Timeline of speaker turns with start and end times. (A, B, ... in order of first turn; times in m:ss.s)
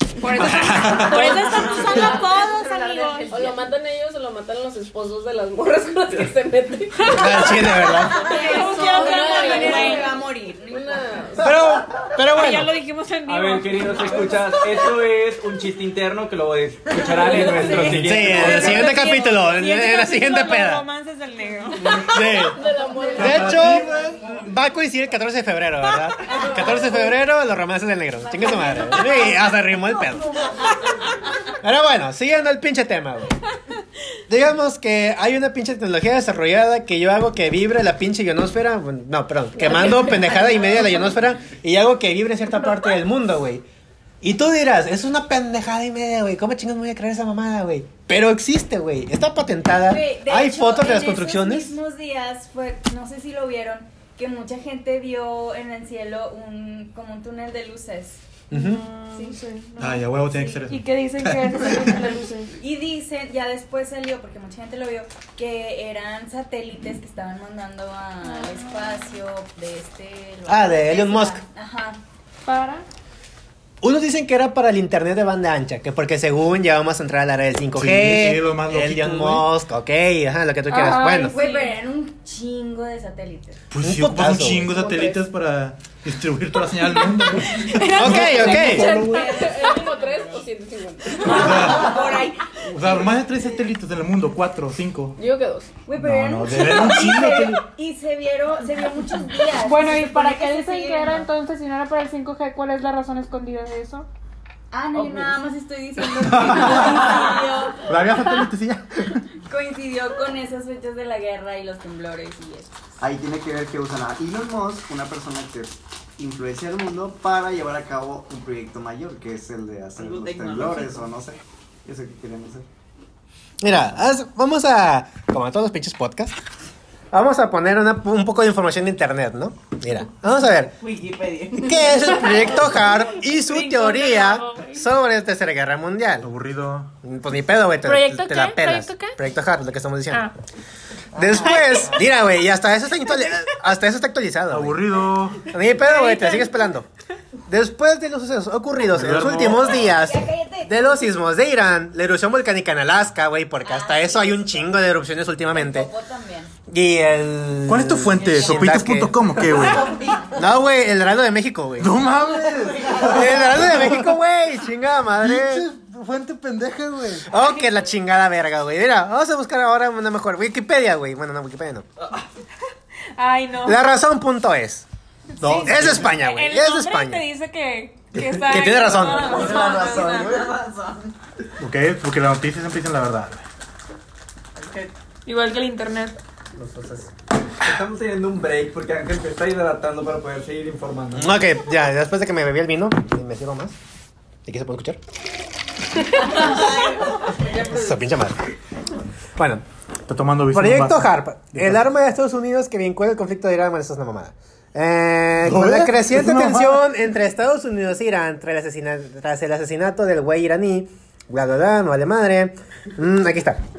0:00.2-0:03.6 A
0:00.4-0:01.4 B
0:00.8-0:03.6 C
0:01.2-0:11.6 D
0:07.0-0:07.6 A
0:07.1-0:08.2 E
0:08.1-0:11.0 C
0:08.2-0:10.1 A
0:11.4-0:12.7 E
0:12.2-0:14.5 A
0:13.3-0:18.9 F
0:17.1-0:17.9 C
0:17.1-0:17.9 D
0:17.2-0:22.3 A
0:17.8-0:20.8 E
0:21.9-0:22.6 E
0:22.3-0:23.9 D
0:22.3-0:24.1 C
0:23.2-0:24.2 B
0:23.2-0:30.4 E
0:26.3-0:27.0 C
0:28.3-0:29.5 C
0:31.6-0:33.4 E
0:34.3-0:43.6 E
0:40.0-0:40.9 C
0:44.2-0:51.7 E
0:49.7-0:58.2 C
0:58.5-0:58.8 E
0:58.5-1:00.1 A
0:59.1-0:59.4 C
0:59.8-1:02.1 B
1:00.3-1:00.6 C
1:00.6-1:02.6 A
1:02.6-1:12.0 C
1:08.2-1:09.1 A
1:10.5-1:11.4 E
1:12.4-1:12.8 A
1:13.8-1:21.4 E
1:17.8-1:19.5 B
1:20.7-1:21.8 A
1:20.7-1:23.6 C
1:23.7-1:29.4 B
1:23.8-1:24.7 E
1:24.7-1:25.3 D
1:26.8-1:30.4 A
1:27.9-1:28.9 E
1:28.6-1:32.0 D
1:28.9-1:30.5 C
1:31.2-1:33.2 C
1:31.3-1:31.9 B
1:32.7-1:35.2 B
1:35.2-1:35.7 D
1:35.9-1:41.3 C
1:35.9-1:37.6 B
1:39.5-1:44.1 A
1:44.7-1:48.4 C
1:46.1-1:49.3 B
1:49.4-1:52.8 C
1:53.0-2:02.7 G
2:03.6-2:06.4 E
2:07.1-2:10.8 E
2:10.9-2:11.5 D
2:11.5-2:16.3 E
2:12.0-2:14.9 A
2:16.2-2:16.9 B
2:17.0-2:20.3 E
2:17.8-2:19.2 A
2:21.1-2:24.9 E
2:21.3-2:22.1 A
2:24.5-2:25.5 B
2:25.5-2:26.9 E
2:25.8-2:26.6 A
2:27.5-2:35.9 E
2:29.0-2:29.8 B
2:29.8-2:31.0 C
2:33.6-2:34.7 C
2:35.5-2:36.5 C
2:36.7-2:39.2 E
2:37.7-2:40.0 B
2:39.6-2:40.2 C
2:40.3-2:41.9 E
2:41.8-2:44.1 B
2:42.8-2:45.7 E
2:45.2-2:47.3 B
2:47.2-2:51.9 E
2:53.2-2:53.8 A
2:53.6-2:54.9 E
2:55.4-3:00.5 A
2:55.4-2:56.2 B
2:55.6-2:57.2 E
2:58.2-2:59.5 E
2:59.1-3:01.0 G
2:59.4-3:00.1 C
3:01.6-3:03.4 B
3:04.6-3:04.9 G
3:05.3-3:06.2 A
3:06.6-3:07.1 G
3:07.6-3:11.4 F
3:11.2-3:13.8 E
3:14.5-3:15.0 E
3:16.5-3:17.7 C
3:17.5-3:18.4 E
3:19.4-3:19.6 E
3:20.1-3:21.8 B
3:20.5-3:33.6 E
3:25.4-3:26.8 B